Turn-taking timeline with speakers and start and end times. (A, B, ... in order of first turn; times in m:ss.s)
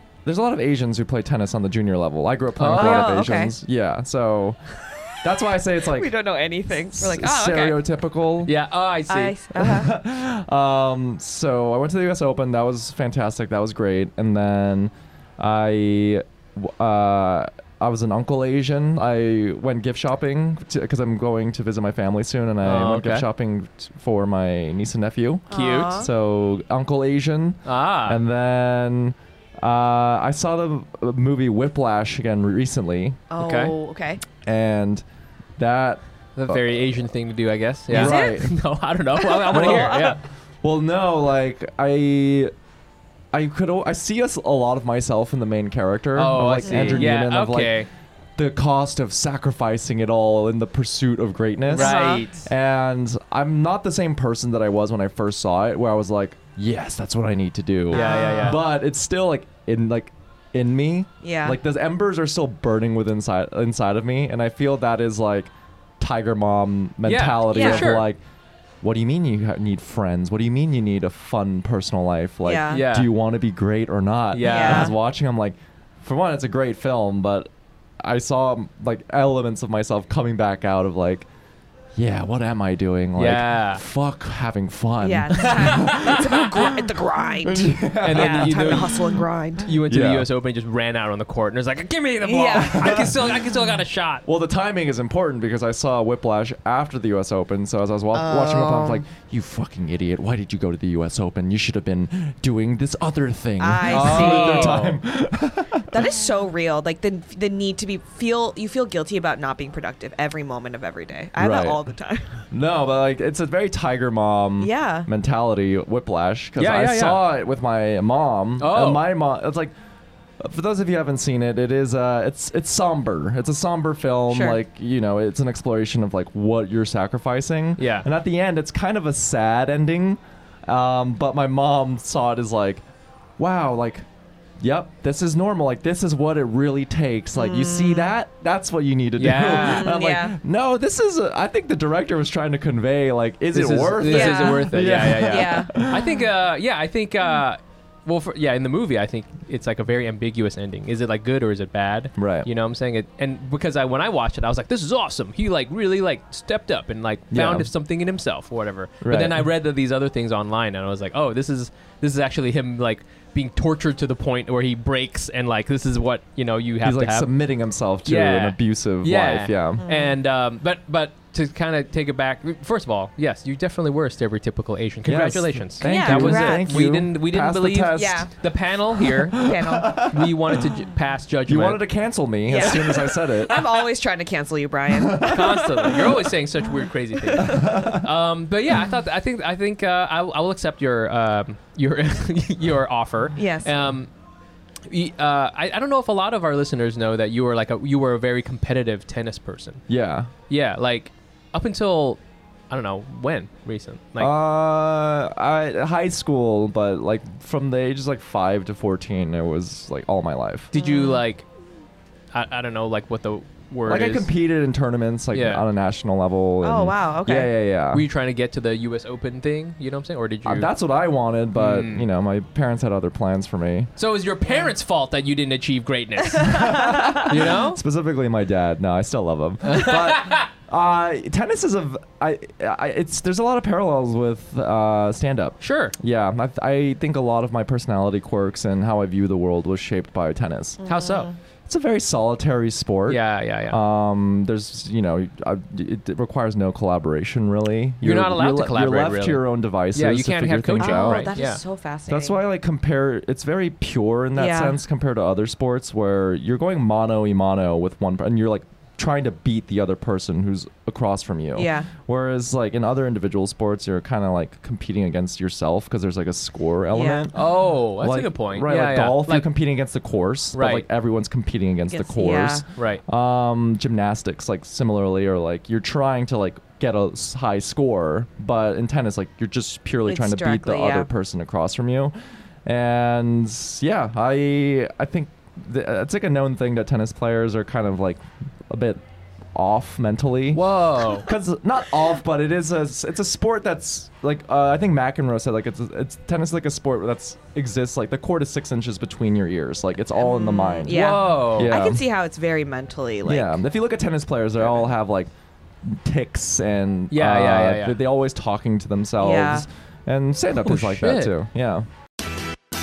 0:00.2-0:04.6 A
0:02.6-0:03.2 B
0:02.7-0:03.6 C
0:05.2-0:06.1 A
0:05.9-0:07.8 C
0:06.9-0:08.5 A
0:08.5-0:09.4 B
0:09.1-0:09.9 C
0:09.6-0:33.2 A
0:22.6-0:23.3 B
0:25.5-0:26.1 C
0:25.5-0:26.0 B
0:27.7-0:28.2 B
0:33.3-0:34.2 C
0:33.4-0:33.7 B
0:34.4-0:35.0 A
0:35.6-0:36.8 A
0:36.4-0:40.2 B
0:37.9-0:38.5 A
0:37.9-0:38.5 C
0:39.2-0:40.1 C
0:39.5-0:42.5 A
0:43.3-0:47.8 A
0:46.2-0:47.9 B
0:46.7-0:47.1 C
0:48.4-1:08.2 A
0:51.7-0:52.3 C
0:51.7-0:52.5 B
0:57.9-0:58.6 B
0:57.9-0:58.6 C
1:01.2-1:01.6 C
1:07.0-1:08.1 B
1:07.5-1:07.9 C
1:08.8-1:17.5 A
1:12.4-1:12.8 C
1:12.7-1:13.1 B
1:14.3-1:14.9 B
1:14.4-1:14.9 C
1:18.0-1:21.3 A
1:22.0-1:26.7 A
1:23.2-1:23.8 B
1:25.0-1:29.7 C
1:25.4-1:26.3 B
1:27.4-1:30.3 A
1:28.0-1:34.2 B
1:32.2-1:33.0 C
1:32.5-1:33.5 A
1:34.2-1:46.0 A
1:38.1-1:39.0 C
1:43.6-1:44.8 C
1:43.9-1:45.0 B
1:45.9-1:52.4 C
1:51.4-1:51.8 A
1:52.5-1:59.7 A
1:54.6-1:55.1 C
1:56.6-1:57.2 B
1:58.6-1:59.0 B
2:00.4-2:12.8 A
2:04.3-2:04.6 C
2:07.8-2:08.1 B
2:13.4-2:14.1 A
2:14.6-2:26.3 A
2:17.4-2:18.1 C
2:19.2-2:19.9 B
2:19.5-2:20.4 C
2:23.5-2:47.3 B
2:24.0-2:25.9 C
2:32.2-2:32.5 A
2:37.3-2:37.7 A
2:39.0-2:39.5 A
2:46.8-2:49.8 A
2:48.0-2:59.5 B
2:49.8-2:50.2 C
2:55.0-2:58.3 A
2:55.8-2:56.7 C
2:57.9-2:58.3 C
2:59.0-3:00.8 A
2:59.4-3:00.0 C
3:00.1-3:01.8 B
3:01.5-3:03.6 A
3:02.5-3:06.1 C
3:02.6-3:03.0 B
3:05.0-3:05.5 A
3:05.2-3:14.1 B
3:07.4-3:08.0 A
3:13.4-3:13.7 C
3:14.9-3:19.8 B
3:19.9-3:20.3 A
3:20.5-3:22.2 B
3:22.7-3:24.3 B
3:24.2-3:30.7 A
3:30.7-3:31.5 B
3:30.8-3:31.2 C
3:32.3-3:34.3 B
3:33.9-3:38.1 A
3:35.3-3:35.6 B
3:36.6-3:37.5 C
3:37.9-3:40.7 B
3:40.4-3:43.9 A
3:41.6-3:42.1 B
3:44.0-3:47.8 B
3:46.4-3:47.2 C
3:46.4-4:00.8 A
3:49.6-3:50.5 B
3:55.6-3:56.0 B
4:00.8-4:01.4 C
4:00.9-4:01.3 B
4:01.7-4:11.3 A
4:03.1-4:03.8 B
4:08.0-4:11.6 B
4:10.8-4:12.4 C
4:12.1-4:27.4 A
4:14.4-4:14.8 C
4:21.6-4:21.9 C
4:26.9-4:27.3 C
4:27.3-4:29.5 B
4:28.0-4:42.1 A
4:30.6-4:30.9 B
4:31.9-4:32.6 C
4:32.7-4:33.0 B
4:40.1-4:41.1 C
4:42.6-4:49.0 A
4:49.6-4:50.6 A
4:50.5-4:51.3 B
4:51.2-5:02.0 A
5:00.2-5:03.6 C
5:00.9-5:01.7 B
5:03.2-5:05.3 A
5:05.8-5:11.9 A
5:07.1-5:08.0 B
5:09.2-5:09.7 C
5:10.6-5:11.3 B